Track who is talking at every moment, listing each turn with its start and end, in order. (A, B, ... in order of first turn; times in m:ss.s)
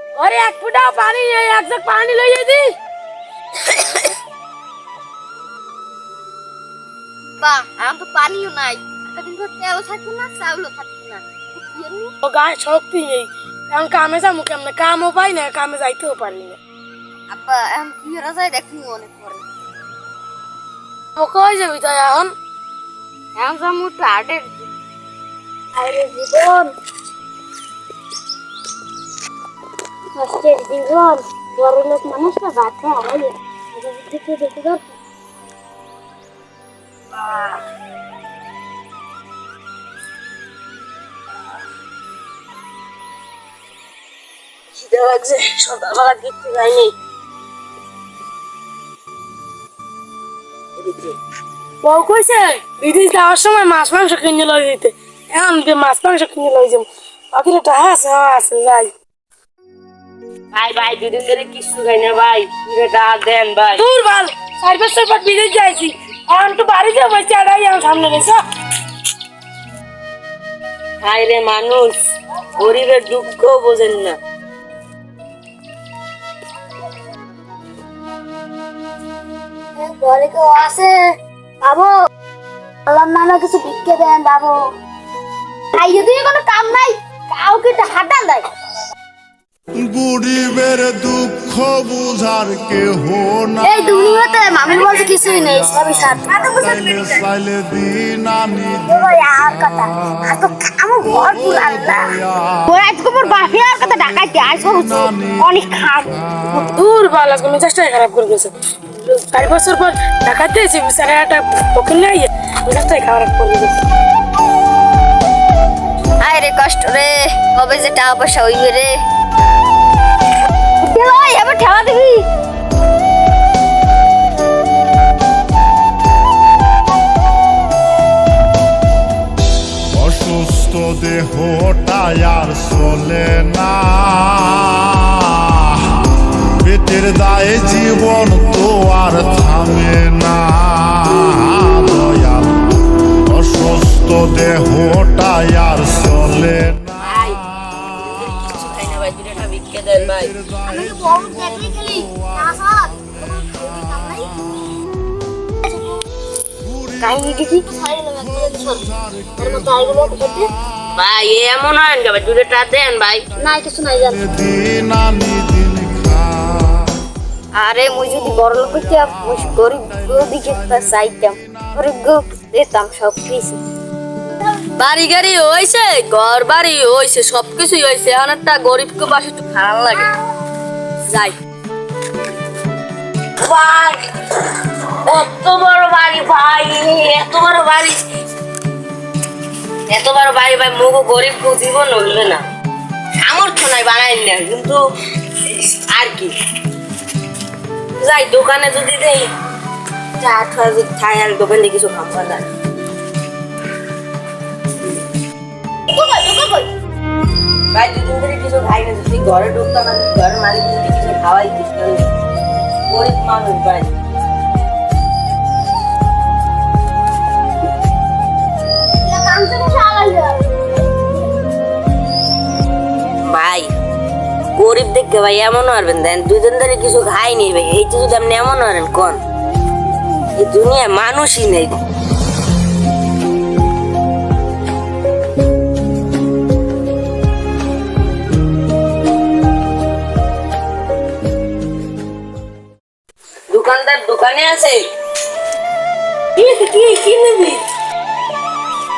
0:00.1-0:02.7 A
0:07.4-0:12.1 B
0:12.2-0:16.6 A
0:17.3-0:19.4 B
0:21.2-0:22.3 A
0:23.4-0:24.7 B
0:25.8-0:26.7 B
0:30.2-0:33.3 B
0:33.9-0:34.8 B
0:37.2-0:37.6 C
0:44.8-0:46.9 A
0:50.8-0:51.1 C
0:51.8-0:58.9 A
1:00.5-1:03.9 C
1:03.7-1:08.4 A
1:11.0-1:12.0 C
1:12.5-1:14.2 C
1:19.8-1:21.0 B
1:21.6-1:21.9 B
1:22.9-1:24.6 B
1:25.7-1:28.4 B
1:29.8-1:33.6 D
1:33.6-1:37.1 B
1:36.7-1:38.7 D
1:38.9-1:42.0 B
1:42.7-1:46.1 B
1:46.6-1:53.8 A
1:56.2-1:59.0 B
2:00.8-2:02.3 B
2:09.9-2:16.0 D
2:16.6-2:22.6 D
2:23.3-2:26.9 D
2:27.0-2:30.4 C
2:30.7-2:34.2 B
2:37.0-2:38.8 B
2:39.4-2:40.4 B
2:40.9-2:43.3 C
2:43.4-2:44.2 B
2:44.5-2:46.5 D
2:47.6-2:53.6 B
2:54.8-3:00.0 C
3:01.1-3:01.3 C
3:03.4-3:04.0 C
3:05.0-3:08.0 C
3:09.9-3:12.4 C
3:13.2-3:14.8 C
3:15.4-3:16.3 C
3:18.0-3:19.3 C
3:20.2-3:22.4 C
3:25.9-3:26.7 B
3:27.7-3:32.1 C
3:32.9-3:33.9 C
3:39.0-3:40.4 B
3:43.2-3:43.7 C
3:44.6-3:49.2 C
3:50.4-3:51.8 C
4:03.5-4:04.9 C
4:06.4-4:07.6 C